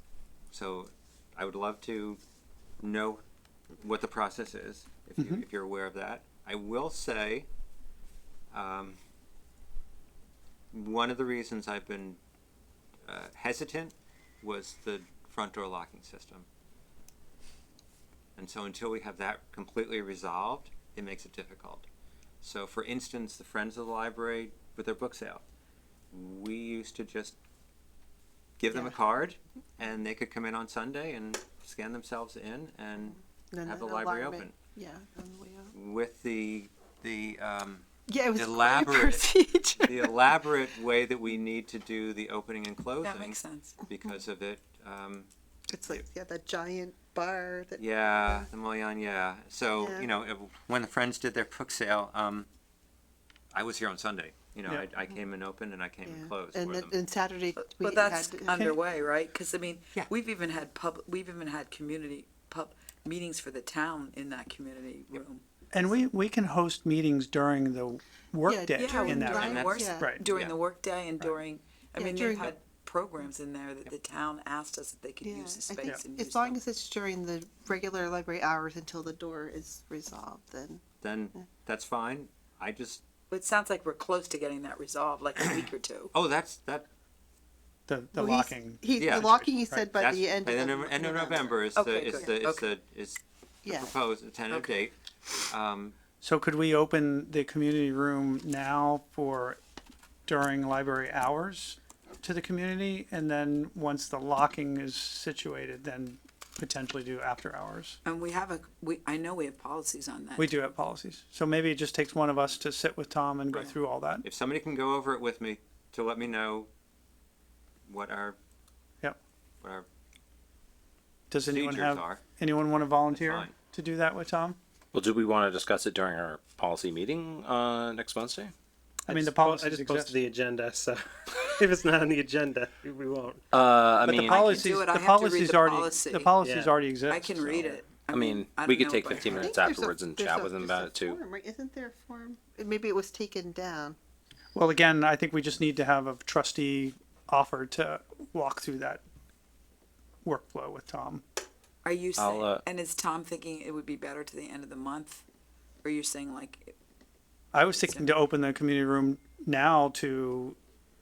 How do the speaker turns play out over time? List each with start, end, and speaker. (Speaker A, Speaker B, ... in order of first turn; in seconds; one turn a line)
Speaker A: 0.5-2.2
Speaker A: 2.8-3.2
Speaker A: 3.8-7.5
Speaker B: 5.2-5.4
Speaker A: 8.5-9.0
Speaker A: 10.7-12.2
Speaker A: 13.1-16.5
Speaker A: 18.4-21.9
Speaker A: 22.4-25.4
Speaker A: 26.1-27.4
Speaker A: 28.6-34.6
Speaker C: 28.7-28.9
Speaker C: 33.5-35.7
Speaker A: 35.7-39.3
Speaker C: 38.1-40.2
Speaker A: 39.8-45.3
Speaker D: 43.0-43.8
Speaker C: 45.7-48.5
Speaker A: 47.8-52.5
Speaker C: 49.8-50.1
Speaker A: 53.5-56.9
Speaker C: 56.0-58.8
Speaker D: 57.6-66.0
Speaker B: 58.5-58.8
Speaker B: 65.7-70.2
Speaker C: 68.5-70.1
Speaker D: 68.8-76.6
Speaker A: 69.4-70.5
Speaker C: 72.0-72.5
Speaker C: 75.2-80.8
Speaker A: 81.0-83.0
Speaker D: 83.3-86.1
Speaker A: 86.1-86.9
Speaker B: 87.9-89.9
Speaker C: 88.2-91.6
Speaker A: 89.0-94.9
Speaker D: 91.8-92.7
Speaker C: 93.7-93.9
Speaker A: 95.5-96.0
Speaker B: 96.2-99.6
Speaker B: 100.3-108.0
Speaker D: 108.0-110.7
Speaker B: 110.4-114.2
Speaker A: 114.2-116.7
Speaker A: 117.9-118.4
Speaker A: 119.6-119.9
Speaker B: 121.3-124.6
Speaker A: 121.4-122.2
Speaker A: 123.1-123.5
Speaker E: 124.9-128.5
Speaker B: 129.1-130.2
Speaker F: 129.1-133.4
Speaker E: 133.5-134.5
Speaker B: 134.1-137.6
Speaker D: 134.2-136.4
Speaker F: 136.4-136.8
Speaker D: 137.1-139.6
Speaker F: 137.5-137.8
Speaker E: 138.1-141.2
Speaker C: 139.3-144.0
Speaker B: 144.6-149.0
Speaker B: 150.2-151.2
Speaker D: 151.8-155.2
Speaker E: 152.2-152.6
Speaker D: 155.8-156.8
Speaker B: 157.5-160.6
Speaker D: 157.7-158.2